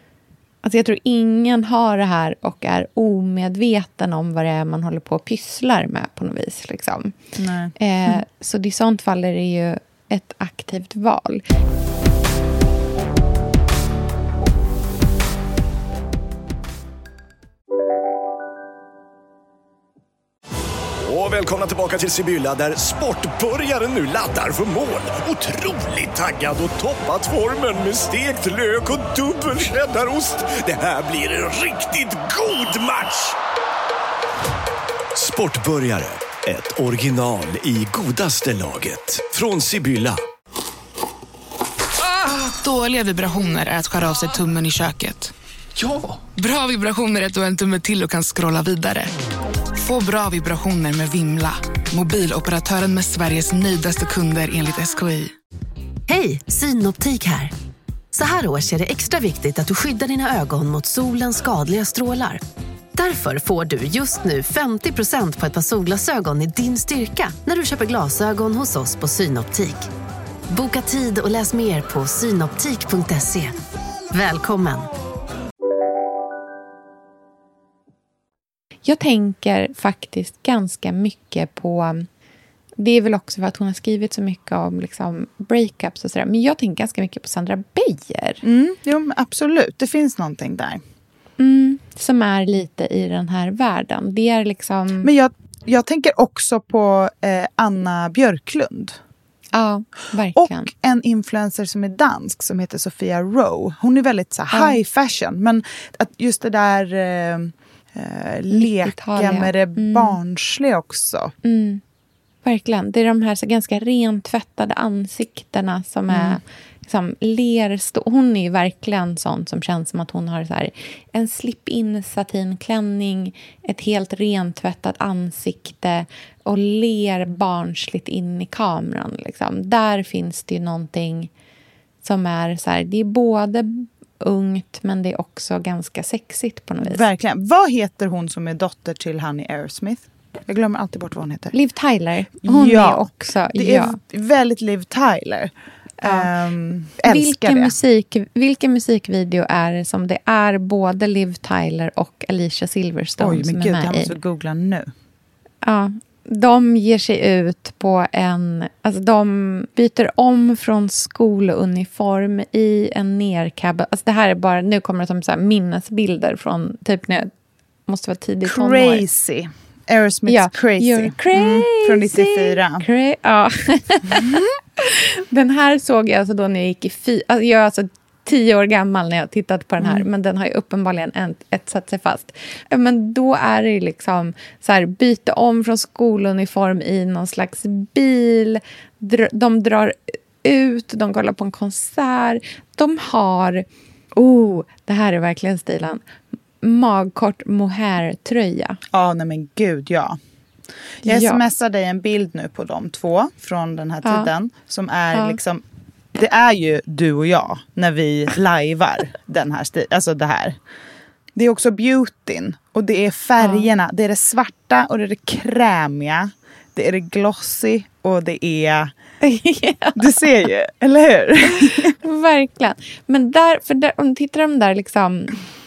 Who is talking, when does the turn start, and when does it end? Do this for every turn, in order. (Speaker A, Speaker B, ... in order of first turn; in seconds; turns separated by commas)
Speaker A: 0.6-7.1, Speaker B: 7.4-8.2, Speaker A: 7.8-11.4, Speaker C: 21.1-33.4, Speaker C: 35.1-40.2, Speaker D: 42.0-49.1, Speaker D: 49.8-55.3, Speaker E: 56.1-57.5, Speaker E: 58.1-62.4, Speaker E: 63.0-69.8, Speaker E: 70.5-73.6, Speaker E: 74.1-74.9, Speaker A: 78.8-82.1, Speaker A: 82.8-88.4, Speaker B: 88.4-90.8, Speaker A: 91.4-95.1, Speaker B: 95.0-99.0, Speaker A: 99.5-100.7, Speaker B: 100.3-111.3, Speaker A: 104.5-104.8, Speaker A: 108.5-110.2, Speaker A: 111.4-111.8, Speaker A: 112.4-131.3, Speaker B: 116.1-116.4, Speaker A: 132.0-137.0, Speaker B: 136.8-141.5, Speaker A: 141.5-144.0, Speaker B: 142.4-147.7, Speaker A: 146.0-146.3, Speaker A: 147.0-154.1, Speaker B: 153.2-154.9, Speaker A: 155.6-167.3, Speaker A: 167.9-169.0, Speaker B: 168.4-172.8, Speaker A: 170.3-196.0, Speaker B: 174.1-174.5, Speaker B: 179.8-180.1, Speaker A: 196.6-198.8, Speaker B: 198.9-200.2, Speaker B: 201.0-205.6, Speaker A: 201.0-201.4, Speaker A: 204.0-204.3, Speaker B: 206.1-210.6, Speaker B: 211.3-218.9, Speaker A: 213.4-213.7, Speaker A: 219.2-220.2, Speaker B: 219.9-221.9, Speaker A: 221.5-225.4